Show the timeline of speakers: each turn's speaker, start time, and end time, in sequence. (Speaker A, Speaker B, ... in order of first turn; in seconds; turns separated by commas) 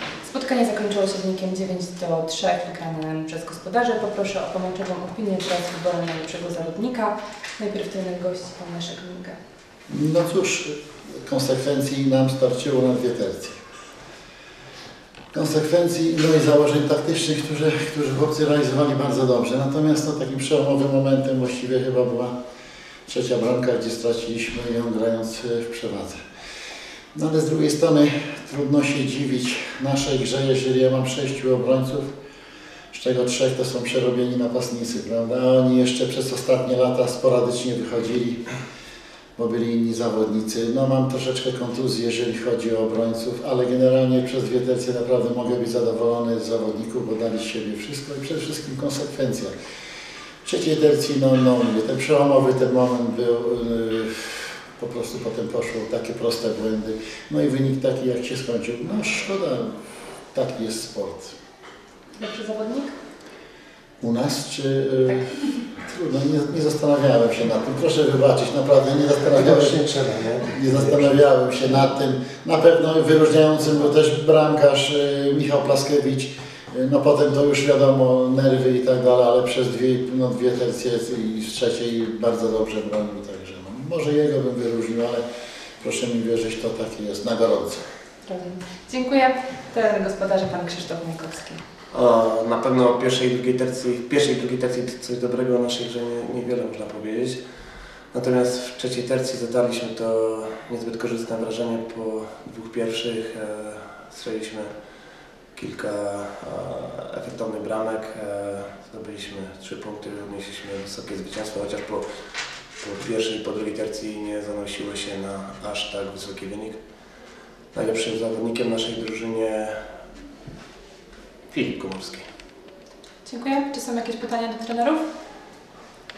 Speaker A: 0.2-9.4, Speaker B: 9.9-13.6, Speaker B: 15.3-22.3, Speaker B: 23.1-26.2, Speaker B: 27.1-32.1, Speaker B: 32.9-38.4, Speaker B: 39.4-49.5, Speaker B: 50.4-59.8, Speaker B: 60.3-61.3, Speaker A: 62.2-62.9, Speaker B: 64.0-69.8, Speaker C: 69.3-71.1, Speaker B: 70.4-85.2, Speaker B: 85.8-87.8, Speaker A: 88.2-91.6, Speaker C: 91.9-97.4, Speaker C: 98.1-104.7, Speaker C: 105.5-112.0, Speaker C: 112.8-116.8, Speaker C: 117.7-119.8, Speaker C: 121.5-122.3, Speaker A: 123.2-125.0